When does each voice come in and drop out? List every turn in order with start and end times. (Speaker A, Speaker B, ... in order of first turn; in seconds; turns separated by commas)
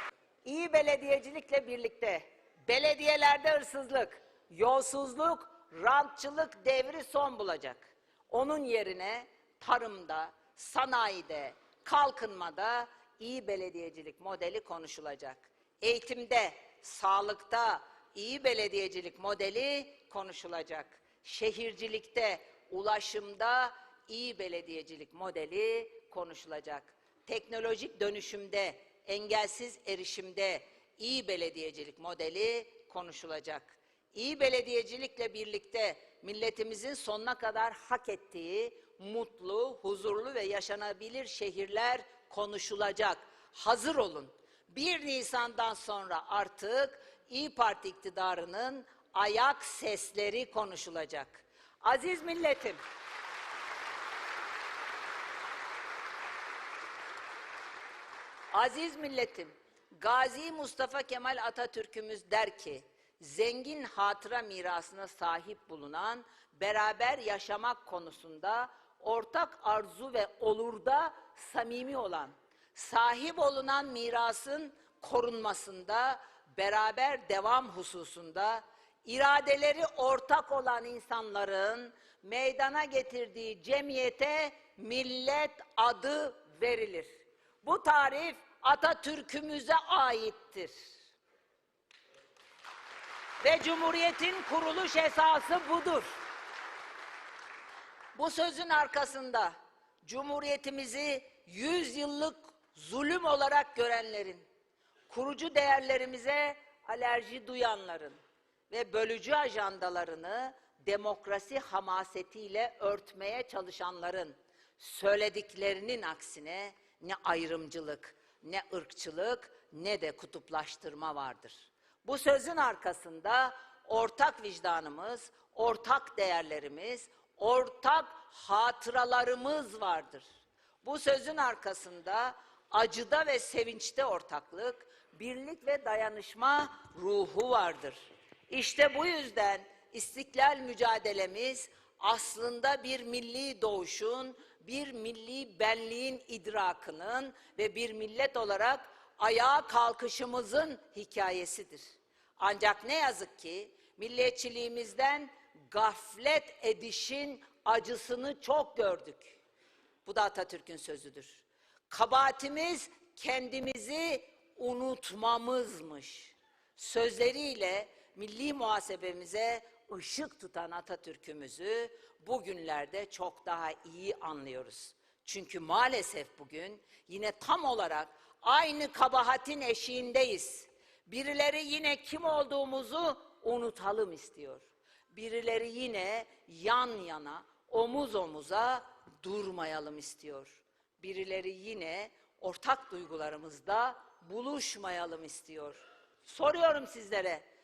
Speaker A: 0.5-52.8, Speaker A: 58.5-87.1, Speaker A: 87.6-90.7, Speaker A: 93.4-96.1, Speaker A: 98.2-99.5, Speaker A: 100.0-104.4, Speaker A: 105.1-108.2, Speaker A: 108.7-130.2, Speaker A: 130.8-138.0, Speaker A: 138.5-151.8, Speaker A: 152.4-159.4, Speaker A: 160.1-197.4